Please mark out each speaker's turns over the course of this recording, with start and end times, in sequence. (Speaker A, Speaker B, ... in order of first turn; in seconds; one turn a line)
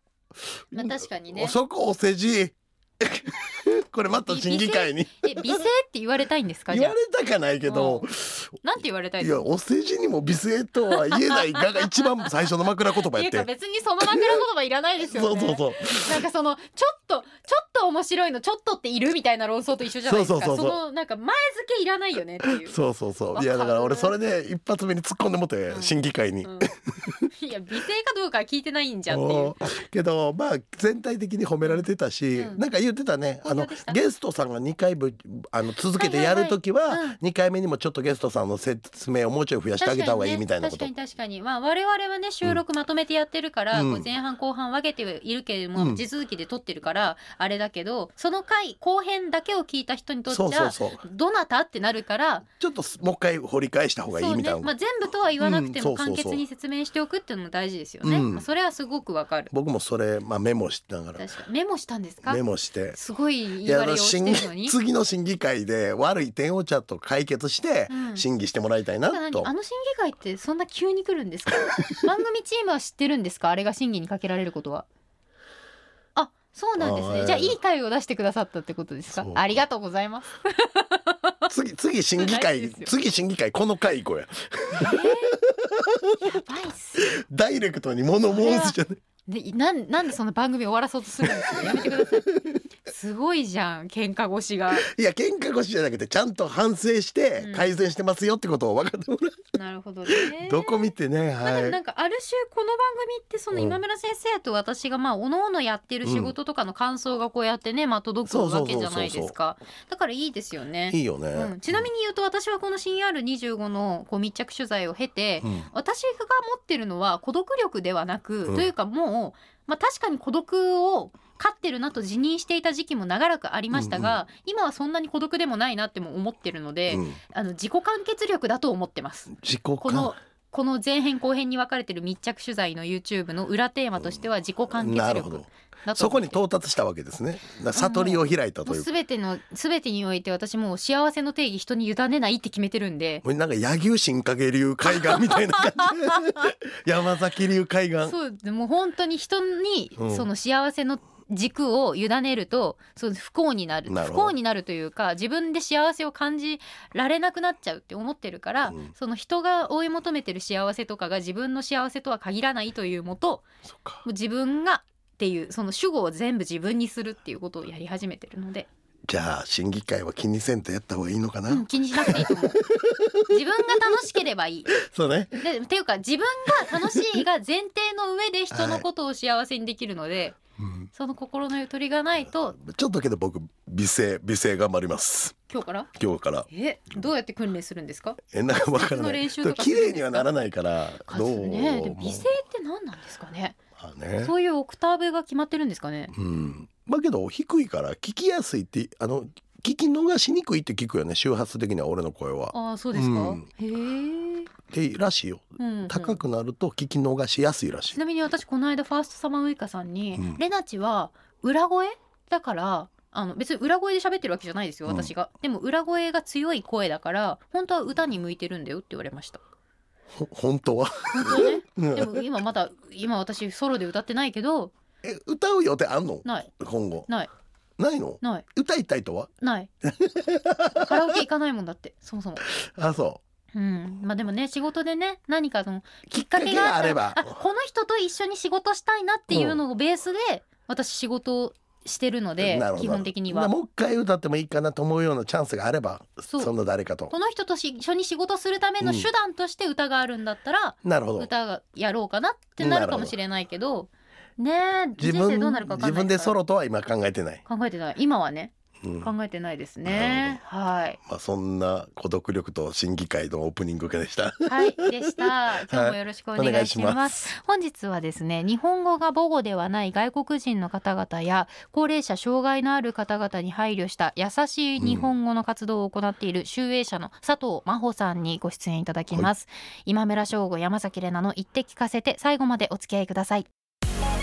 Speaker A: 0.3-5.6
Speaker B: 0.7-1.6
Speaker B: 4.3-7.0
Speaker A: 6.7-8.6
Speaker B: 7.7-8.1
Speaker B: 8.6-9.5
Speaker A: 9.2-13.5
Speaker B: 11.0-11.9
Speaker B: 13.1-22.8
Speaker A: 14.0-14.4
Speaker A: 15.0-16.2
Speaker A: 20.1-20.8
Speaker A: 22.4-27.3
Speaker B: 23.3-24.1
Speaker B: 25.7-26.7
Speaker B: 27.3-29.6
Speaker A: 29.1-40.9
Speaker B: 32.4-32.6
Speaker B: 33.4-34.0
Speaker B: 36.0-37.2
Speaker B: 39.8-52.5
Speaker A: 43.7-44.1
Speaker A: 45.8-46.0
Speaker A: 50.3-51.0
Speaker A: 52.6-54.7
Speaker B: 54.1-59.5
Speaker A: 55.4-56.4
Speaker A: 58.0-58.5
Speaker A: 59.5-61.3
Speaker B: 61.1-62.4
Speaker A: 62.2-63.0
Speaker B: 62.9-64.8
Speaker A: 63.6-69.5
Speaker B: 67.9-68.3
Speaker B: 69.1-74.9
Speaker B: 76.2-81.5
Speaker A: 76.8-77.6
Speaker A: 79.1-79.6
Speaker A: 81.5-86.4
Speaker B: 82.2-82.9
Speaker B: 84.7-85.4
Speaker B: 86.2-87.1
Speaker A: 87.0-89.0
Speaker B: 88.3-88.8
Speaker B: 89.3-92.3
Speaker A: 91.2-92.6
Speaker B: 92.8-94.9
Speaker A: 94.7-99.5
Speaker B: 97.4-97.7
Speaker B: 99.5-136.4
Speaker A: 100.1-101.8
Speaker A: 103.5-103.8
Speaker A: 106.0-106.3
Speaker A: 108.3-109.4
Speaker A: 110.9-111.9
Speaker A: 115.4-115.7
Speaker A: 123.7-124.2
Speaker A: 126.9-127.2
Speaker A: 129.3-130.2
Speaker A: 134.7-138.9
Speaker B: 137.7-143.2
Speaker A: 143.2-148.2
Speaker B: 144.9-146.5
Speaker B: 148.0-163.5
Speaker A: 150.0-150.3
Speaker A: 153.9-154.3
Speaker A: 158.6-158.9
Speaker A: 163.7-164.0
Speaker B: 164.0-168.7
Speaker A: 169.1-173.4
Speaker B: 171.5-172.7
Speaker B: 173.3-174.8
Speaker A: 174.7-175.4
Speaker B: 175.4-180.4
Speaker A: 178.5-178.8
Speaker A: 180.6-180.9
Speaker B: 180.9-182.6
Speaker A: 182.6-185.4
Speaker B: 185.5-185.9
Speaker A: 185.9-186.5
Speaker B: 186.5-190.3
Speaker A: 188.3-192.3
Speaker B: 191.1-193.6
Speaker A: 193.8-194.3
Speaker B: 194.2-196.1
Speaker A: 196.1-203.5
Speaker B: 202.5-204.5
Speaker A: 204.7-208.0
Speaker B: 205.6-206.2
Speaker B: 207.9-219.4
Speaker A: 210.2-210.4
Speaker A: 214.9-215.1
Speaker A: 220.1-222.2
Speaker B: 221.1-224.7
Speaker A: 225.0-227.1
Speaker A: 227.8-229.3
Speaker B: 229.4-229.7
Speaker A: 229.8-231.2
Speaker B: 230.8-232.4
Speaker A: 232.4-233.2
Speaker B: 233.5-243.5
Speaker A: 236.1-237.3
Speaker A: 239.3-239.6
Speaker A: 242.4-247.1
Speaker B: 246.3-246.5
Speaker B: 247.1-256.4
Speaker A: 248.8-249.1
Speaker A: 250.8-251.3
Speaker A: 252.6-253.2
Speaker A: 255.0-257.4
Speaker B: 257.5-261.0
Speaker A: 258.8-259.1
Speaker A: 259.9-260.4
Speaker A: 261.1-267.3
Speaker B: 264.5-283.5
Speaker A: 274.8-275.1